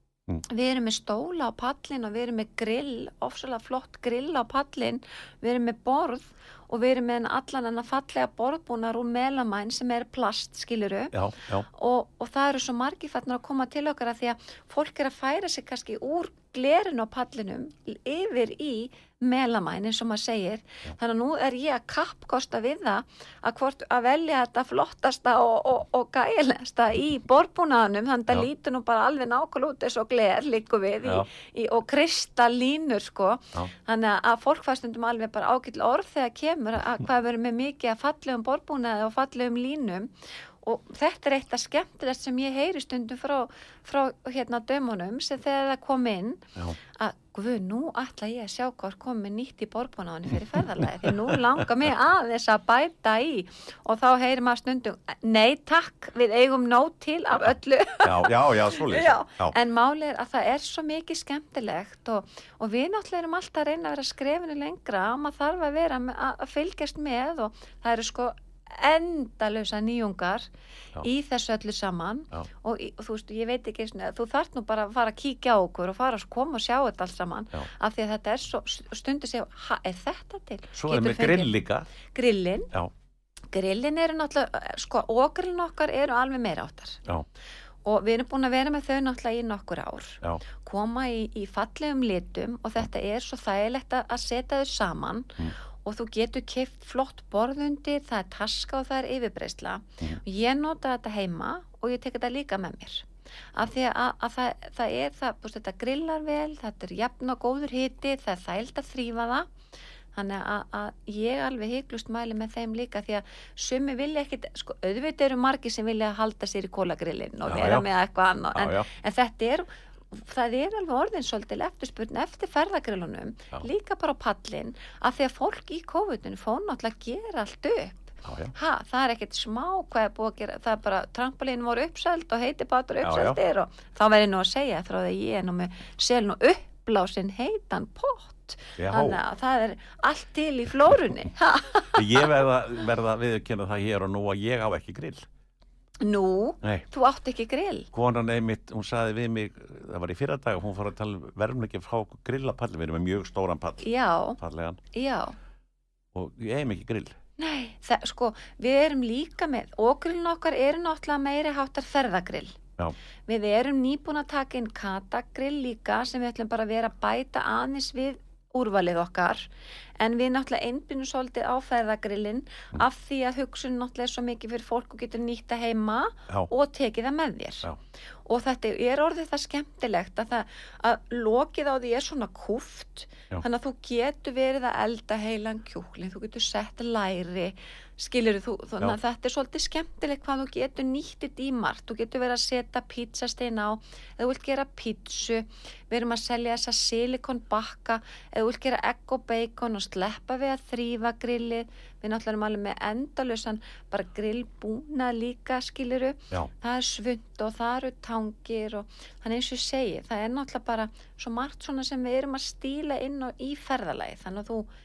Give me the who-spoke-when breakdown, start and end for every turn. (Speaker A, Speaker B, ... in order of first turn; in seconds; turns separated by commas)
Speaker A: 0.4-11.1, Speaker B: 11.1-11.7, Speaker A: 11.7-70.5, Speaker B: 50.5-51.4, Speaker B: 58.0-59.5, Speaker A: 71.0-82.7, Speaker B: 80.7-81.9, Speaker A: 83.5-87.0, Speaker A: 87.8-109.5, Speaker A: 110.1-142.3, Speaker B: 117.5-117.8, Speaker B: 118.5-118.9, Speaker B: 128.2-128.5, Speaker B: 133.0-133.4, Speaker B: 138.8-139.2, Speaker B: 141.9-145.3, Speaker A: 146.0-147.9, Speaker B: 147.9-153.9, Speaker A: 153.8-154.4, Speaker B: 154.4-154.8, Speaker A: 154.9-155.3, Speaker B: 156.1-157.2, Speaker A: 157.4-162.6, Speaker A: 163.3-169.5, Speaker A: 170.0-177.7, Speaker A: 178.2-214.7